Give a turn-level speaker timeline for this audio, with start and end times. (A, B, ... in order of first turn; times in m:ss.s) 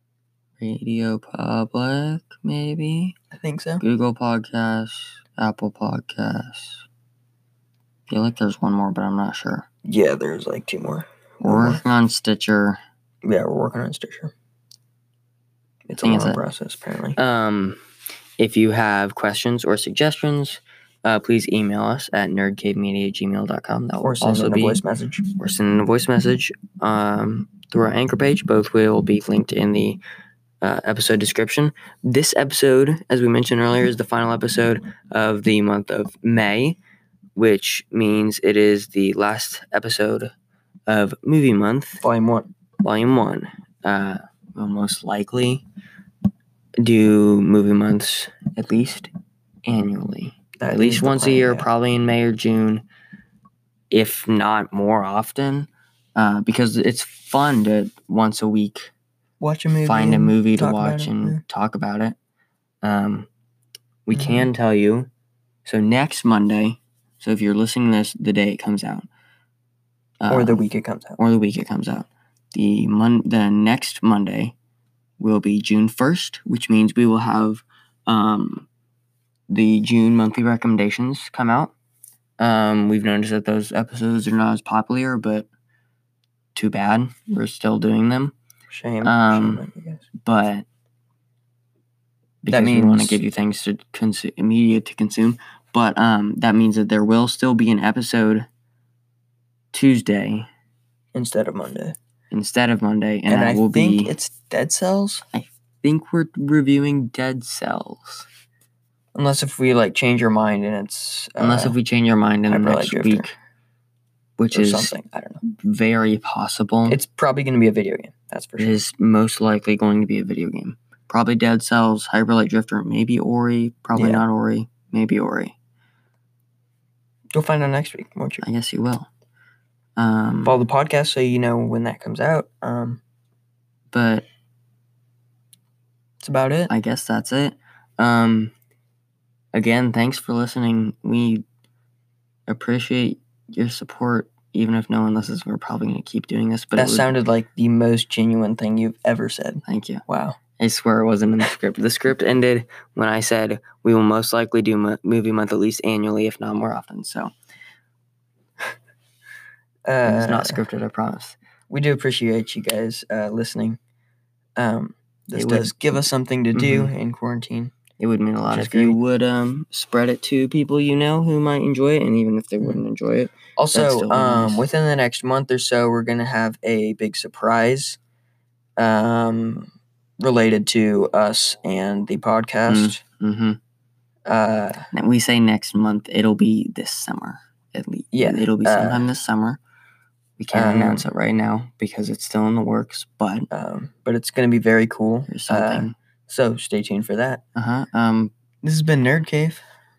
0:00.6-0:03.2 A
0:03.3-0:03.8 B
0:03.8-0:06.8 A
0:08.1-0:09.6 A
0:09.8-0:11.8 B
0:11.4-0:12.8 A
0:13.2-0:14.3 B
0:15.9-0:17.2 B
0:16.0-0:16.4 A
0:17.2-0:17.8 A
0:18.4-0:24.8 A
0:24.0-0:25.2 B
0:25.4-0:30.0 A
0:30.6-0:36.8 A
0:37.3-0:40.3 A
0:40.9-0:42.0 A
0:42.0-0:42.5 B
0:42.8-0:45.6 A
0:46.8-0:49.1 A
0:49.6-0:52.8 A
0:50.6-0:51.7 B
0:53.9-0:58.9 A
0:59.4-1:01.4 B
0:59.8-1:02.2 A
1:02.8-1:03.3 A
1:04.1-1:05.1 A
1:04.1-1:04.5 B
1:05.6-1:09.1 A
1:10.2-1:10.6 A
1:10.3-1:11.2 B
1:11.2-1:14.5 A
1:15.2-1:18.7 A
1:19.5-1:21.7 A
1:22.4-1:25.5 A
1:26.5-1:28.3 A
1:28.7-1:30.0 B
1:29.0-1:29.6 A
1:30.2-1:30.6 A
1:32.4-1:38.5 A
1:32.5-1:33.2 B
1:39.7-1:40.5 A
1:41.1-1:42.0 B
1:42.3-1:44.1 A
1:43.3-1:45.2 B
1:45.3-1:48.3 A
1:49.1-1:51.7 B
1:51.4-1:53.3 A
1:52.5-1:53.3 B
1:54.4-1:57.0 A
1:54.5-1:55.4 B
1:56.9-1:58.8 B
1:58.6-2:05.5 A
2:03.9-2:04.2 B
2:07.3-2:08.4 B
2:08.4-2:09.1 A
2:10.0-2:10.6 A
2:10.4-2:13.0 B
2:13.9-2:14.3 A
2:16.2-2:16.7 B
2:16.7-2:18.5 A
2:19.5-2:21.4 A
2:22.5-2:27.1 A
2:26.8-2:30.4 B
2:29.6-2:30.0 A
2:30.6-2:37.3 A
2:39.9-2:40.6 B
2:40.0-2:41.4 A
2:41.7-2:43.8 B
2:44.6-2:47.7 B
2:45.3-2:46.0 A
2:46.5-2:46.9 A
2:48.0-2:54.6 A
2:48.5-2:49.0 B
2:53.6-2:58.0 B
2:58.8-3:03.0 B
3:02.7-3:03.6 A
3:04.3-3:04.9 B
3:04.9-3:09.6 A
3:08.1-3:09.1 B
3:10.4-3:13.5 A
3:10.5-3:11.0 B
3:13.5-3:17.4 B
3:15.3-3:15.9 A
3:17.5-3:18.3 A
3:18.6-3:19.6 B